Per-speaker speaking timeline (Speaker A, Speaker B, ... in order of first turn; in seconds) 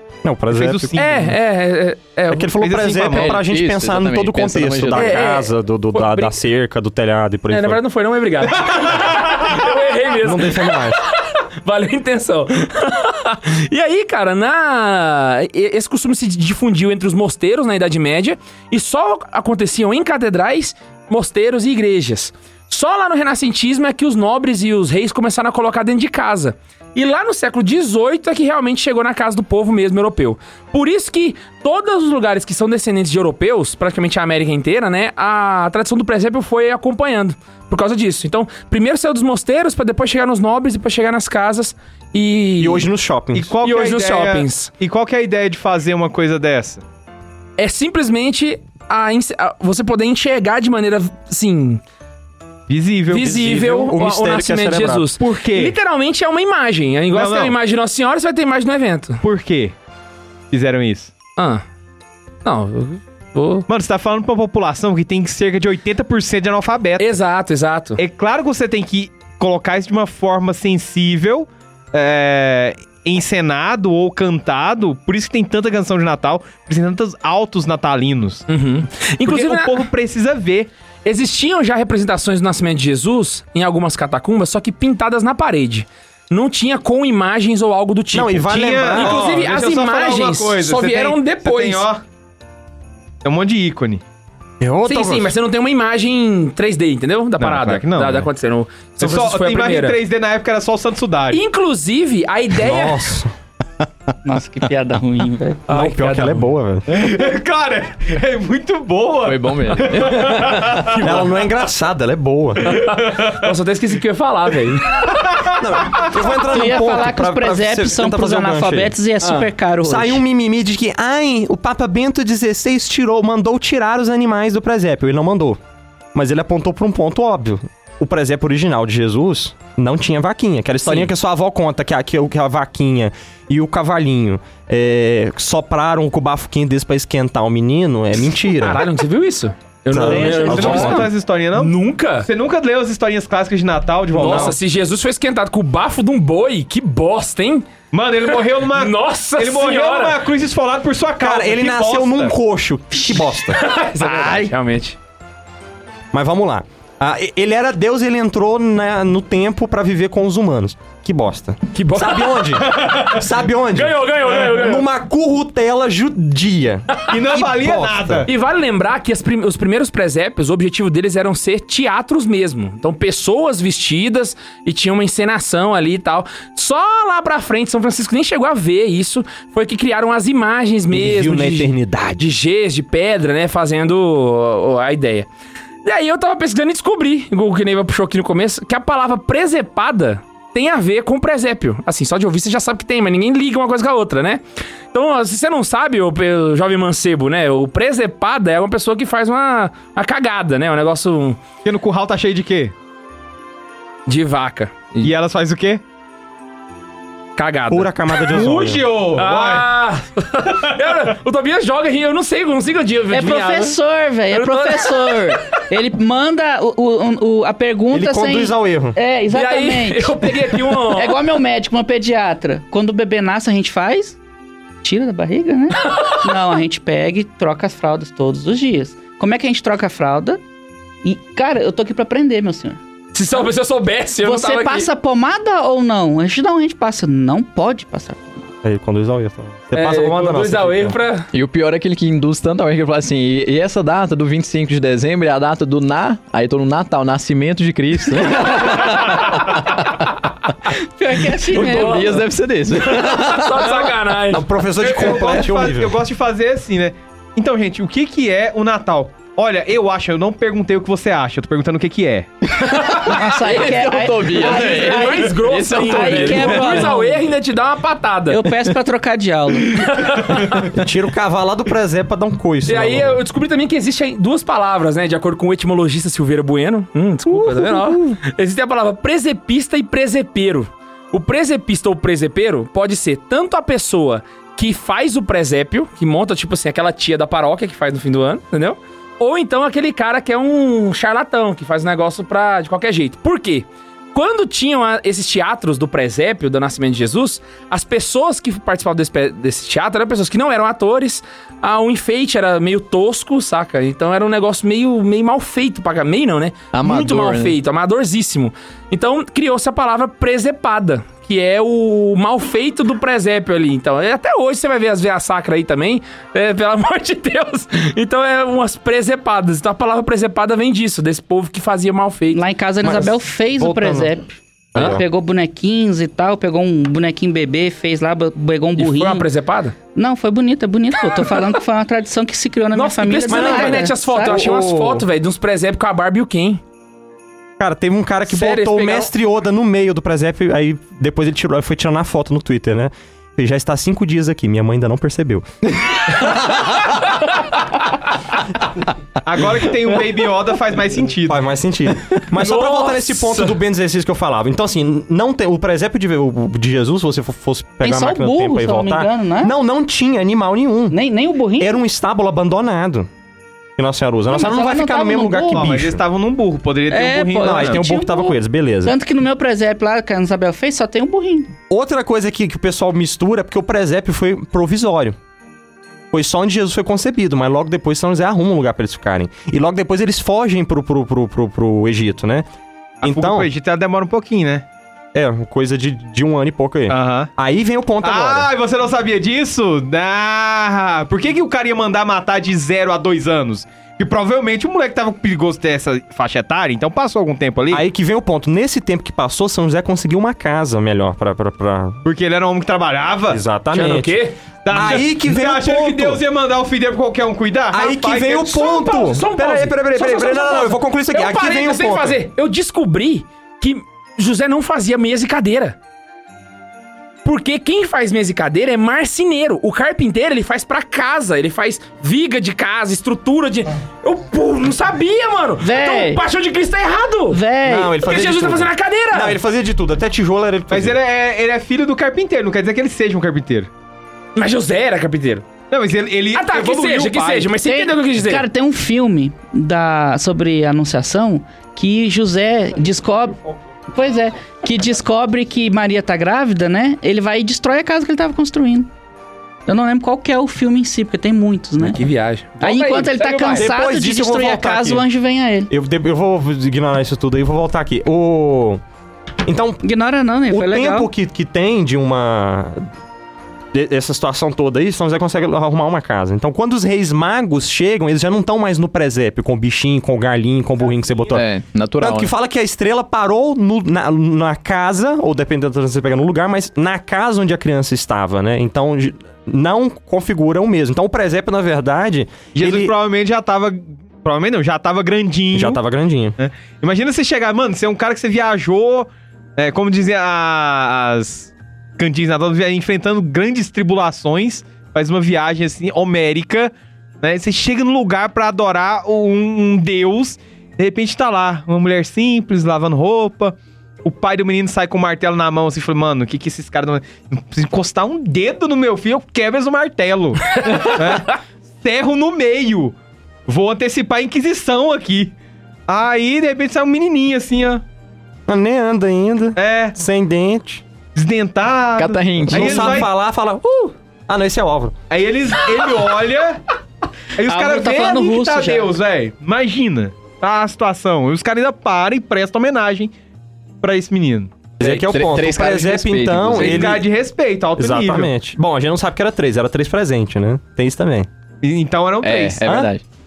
Speaker A: 0.2-1.0, 2.3-7.8, 10.2-11.0, 42.6-43.5, 53.2-55.1, 88.1-89.4, 94.6-95.3, 102.6-103.3, 105.7-106.8, 110.9-112.7, 115.6-118.9, 119.8-125.6, 126.1-138.8, 139.9-141.1, 144.2-144.6, 151.2-153.6, 156.1-168.3, 180.9-182.3, 207.7-208.8, 217.9-219.0, 238.6-241.0, 254.3-256.0, 270.7-273.2, 277.3-278.2, 322.8-324.1, 324.7-325.0, 333.3-335.0, 337.6-345.4, 351.3-360.9, 361.6-363.1, 363.8-366.0, 367.4-368.9, 371.7-375.1, 376.1-382.4, 383.0-383.5, 385.1-388.5, 397.7-402.0, 403.3-404.2, 404.7-406.2, 407.7-412.2, 427.6-431.0, 453.5-455.0, 455.7-458.8, 459.4-459.8, 460.5-462.9, 463.7-471.4, 472.0-482.9, 485.5-486.4, 518.5-520.8, 522.5-524.9, 534.8-537.0, 537.8-541.3, 542.6-542.9
Speaker B: 0.5-1.3, 2.6-3.4, 43.3-46.8, 52.7-53.9, 55.2-55.7, 57.1-57.5, 59.2-59.7, 60.5-61.1, 63.7-67.0, 68.0-78.4, 79.2-80.7, 88.5-92.0, 93.2-94.0, 97.4-98.3, 99.0-101.4, 106.9-111.2, 112.7-113.5, 114.9-116.2, 139.9-144.6, 147.9-152.3, 167.1-168.3, 201.6-202.7, 205.0-205.8, 208.3-209.7, 254.8-262.3, 349.2-351.4, 365.5-367.8, 383.0-384.6, 386.9-387.3, 388.0-397.8, 402.0-403.4, 404.6-408.6, 430.7-433.7, 435.7-437.5, 482.5-485.8, 486.4-512.9, 513.5-515.3, 515.9-517.8, 519.5-519.9, 521.1-523.1, 525.1-526.6, 527.4-533.1, 533.8-534.6, 536.5-538.3, 541.6-542.6
Speaker C: 0.9-2.6, 4.9-6.3, 7.5-42.9, 43.6-44.7, 47.6-51.8, 53.1-59.2, 61.4-61.6, 62.4-63.6, 67.0-68.0, 78.5-79.8, 81.0-91.8, 94.8-100.0, 101.3-103.0, 105.7-106.5, 112.7-115.1, 119.2-119.5, 138.3-142.3, 144.1-147.6, 148.2-150.2, 153.5-154.9, 161.7-164.8, 168.3-185.3, 185.8-201.4, 204.1-205.1, 207.4-208.4, 209.1-213.8, 214.3-215.3, 219.3-221.2, 233.1-234.9, 239.7-241.3, 251.5-254.5, 262.6-268.4, 269.7-270.7, 272.6-322.4, 328.8-329.7, 332.7-336.6, 338.3-339.1, 346.3-347.3, 352.3-353.6, 403.7-404.4, 408.5-415.8, 417.2-427.4, 428.0-429.4, 434.4-435.4, 436.3-438.4, 451.8-453.7, 510.6-511.2
Speaker D: 3.1-5.2, 109.2-110.4, 241.3-249.8, 251.5-253.6, 263.1-266.9, 306.7-307.5, 471.3-472.3, 522.0-523.0, 534.8-537.0, 542.2-543.0
Speaker E: 104.2-105.6, 116.4-120.2, 154.0-154.5, 213.1-224.2, 224.8-230.4, 231.0-232.8, 234.2-238.5, 250.8-252.2, 263.0-267.2, 268.3-269.8, 322.3-329.2, 329.9-334.3, 357.8-359.5, 360.9-361.8, 364.3-365.7, 366.9-371.5, 425.6-426.2, 427.3-428.0, 437.6-448.9, 449.7-452.0, 452.6-455.7, 459.8-461.1, 527.5-528.9